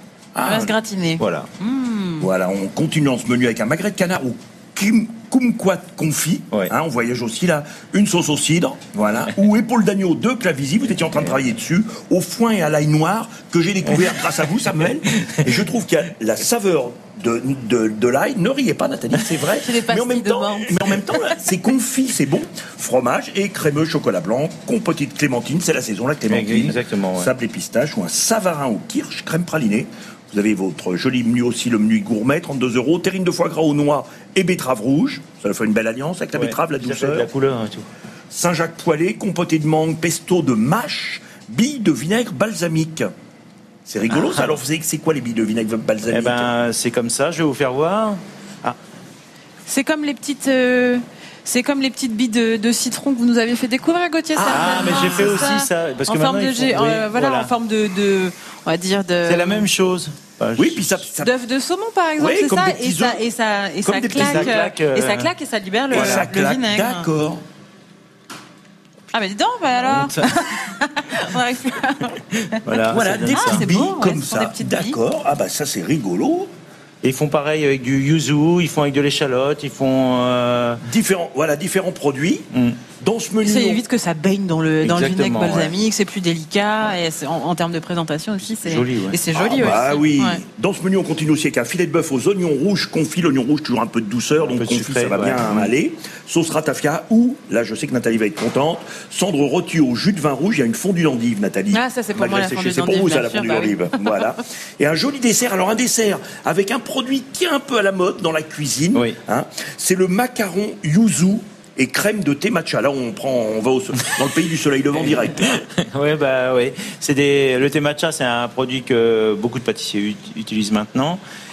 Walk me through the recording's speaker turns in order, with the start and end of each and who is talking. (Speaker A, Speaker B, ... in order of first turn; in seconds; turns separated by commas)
Speaker A: 0.3-0.7, Speaker B: 0.4-2.3, Speaker C: 1.2-1.5, Speaker A: 2.2-37.3, Speaker C: 13.9-14.2, Speaker C: 15.2-15.6, Speaker B: 19.5-21.1, Speaker C: 26.3-27.3, Speaker C: 36.3-37.9, Speaker A: 38.3-43.1, Speaker A: 43.9-46.5, Speaker C: 44.1-44.5, Speaker C: 46.1-48.8, Speaker B: 49.7-59.6, Speaker A: 54.4-55.3, Speaker C: 54.4-57.5, Speaker C: 59.2-61.0, Speaker A: 60.6-61.3, Speaker B: 61.2-67.1, Speaker A: 62.2-63.2, Speaker A: 63.8-64.6, Speaker C: 64.1-65.3, Speaker C: 65.9-66.3, Speaker A: 65.9-67.4, Speaker B: 69.1-72.6, Speaker C: 69.8-70.4, Speaker C: 72.6-73.7, Speaker A: 72.9-76.5, Speaker B: 73.3-75.0, Speaker C: 77.0-80.8, Speaker A: 80.8-82.5, Speaker C: 82.5-82.8, Speaker A: 83.0-83.8, Speaker B: 83.4-90.4, Speaker C: 84.8-85.7, Speaker C: 88.4-89.2, Speaker A: 89.3-115.6, Speaker C: 94.4-95.7, Speaker B: 101.7-104.2, Speaker C: 115.5-121.2